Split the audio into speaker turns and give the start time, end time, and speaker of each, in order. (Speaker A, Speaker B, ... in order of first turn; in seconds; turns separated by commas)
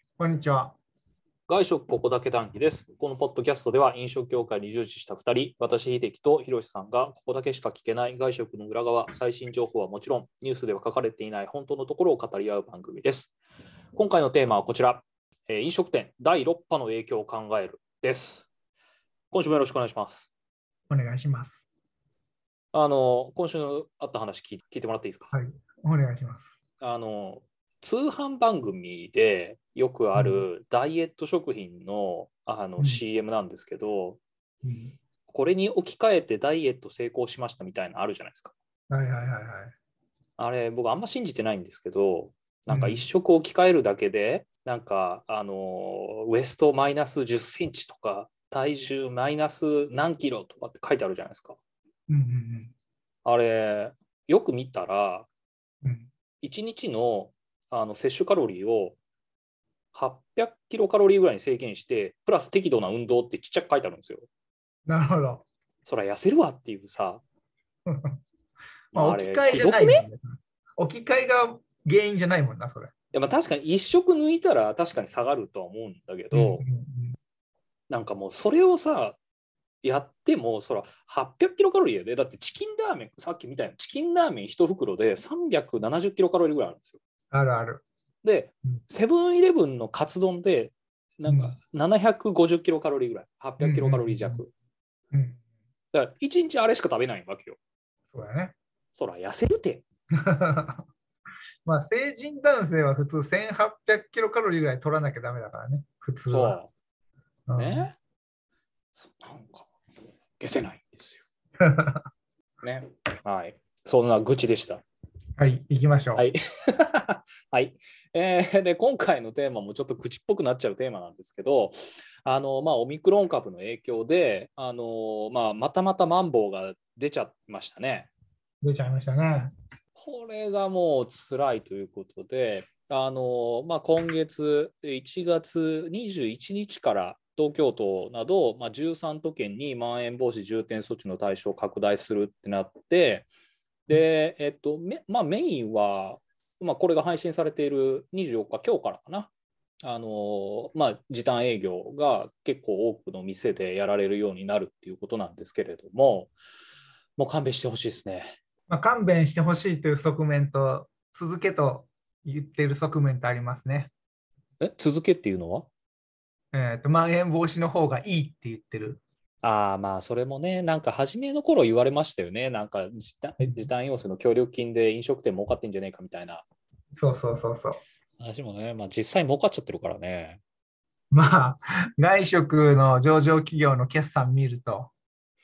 Speaker A: 0.2-0.7, Speaker B: 1.5-13.3, Speaker B: 13.9-18.5, Speaker B: 19.3-20.3, Speaker A: 20.9-21.6, Speaker B: 22.7-25.3, Speaker A: 25.3-26.6, Speaker B: 26.8-34.2, Speaker A: 30.1-30.4, Speaker A: 34.6-35.0, Speaker B: 35.3-38.5, Speaker A: 38.9-39.7, Speaker B: 40.4-51.6, Speaker A: 42.7-43.0, Speaker A: 52.1-52.7, Speaker B: 53.2-55.3, Speaker A: 55.8-56.1, Speaker B: 56.4-59.0, Speaker B: 59.9-64.3, Speaker A: 64.8-65.4, Speaker B: 65.8-67.2, Speaker A: 67.8-68.2, Speaker A: 68.9-72.9, Speaker B: 68.9-70.0, Speaker B: 73.1-76.6, Speaker A: 76.3-77.2, Speaker B: 77.9-79.2, Speaker B: 79.8-87.0, Speaker A: 87.3-87.8, Speaker B: 88.2-94.5, Speaker A: 91.3-91.5, Speaker A: 93.6-94.4, Speaker A: 95.1-95.4, Speaker B: 95.9-97.6, Speaker A: 98.1-98.5, Speaker B: 98.9-99.8, Speaker A: 100.2-100.8, Speaker A: 101.6-106.6, Speaker B: 106.3-106.7, Speaker A: 107.5-107.9, Speaker B: 107.6-107.9, Speaker B: 108.9-109.7, Speaker B: 110.4-111.2, Speaker A: 111.6-112.0, Speaker B: 112.6-114.8, Speaker A: 115.4-116.2, Speaker B: 116.2-128.1, Speaker A: 128.6-129.5, Speaker B: 130.0-143.3, Speaker B: 143.9-149.3, Speaker B: 149.8-156.3, Speaker B: 157.2-158.3, Speaker A: 158.7-163.9, Speaker B: 164.6-165.7, Speaker A: 166.5-169.0, Speaker B: 169.4-176.4, Speaker A: 176.9-177.8, Speaker B: 178.2-180.4, Speaker A: 181.1-184.9